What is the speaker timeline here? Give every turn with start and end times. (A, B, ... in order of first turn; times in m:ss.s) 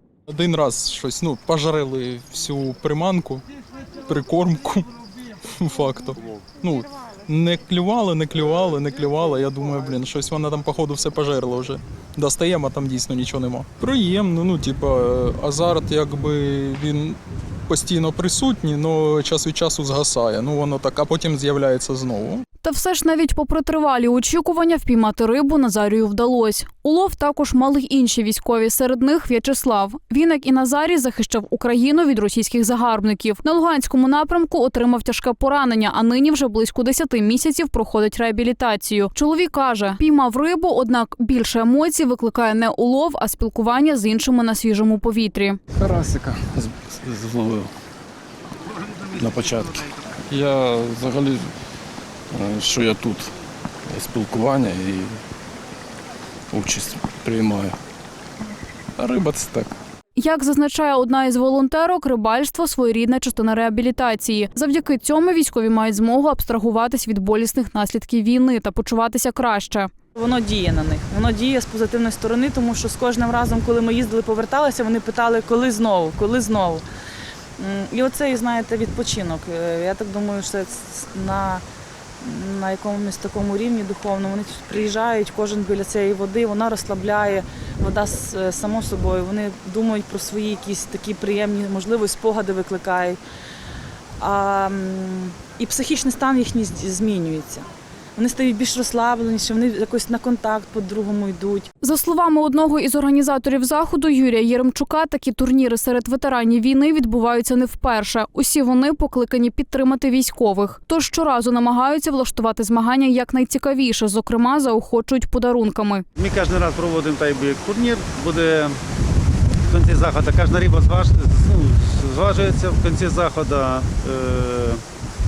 0:00.3-0:03.4 A
0:04.0-0:04.9 A
0:05.6-0:22.4 A
0:22.6-0:45.6 B
0:45.8-0:47.7 C
0:49.1-0:51.5 C
0:52.3-0:53.3 C
0:53.9-0:55.2 C
0:56.5-0:57.8 C
0:59.0-0:59.7 C
1:00.2-1:09.9 B
1:10.2-1:16.8 D
1:17.6-1:21.6 D
1:22.2-1:33.2 D
1:34.2-1:37.6 D
1:38.2-1:41.7 D
1:41.8-1:56.0 B
1:56.2-1:58.8 E
1:59.6-2:04.8 E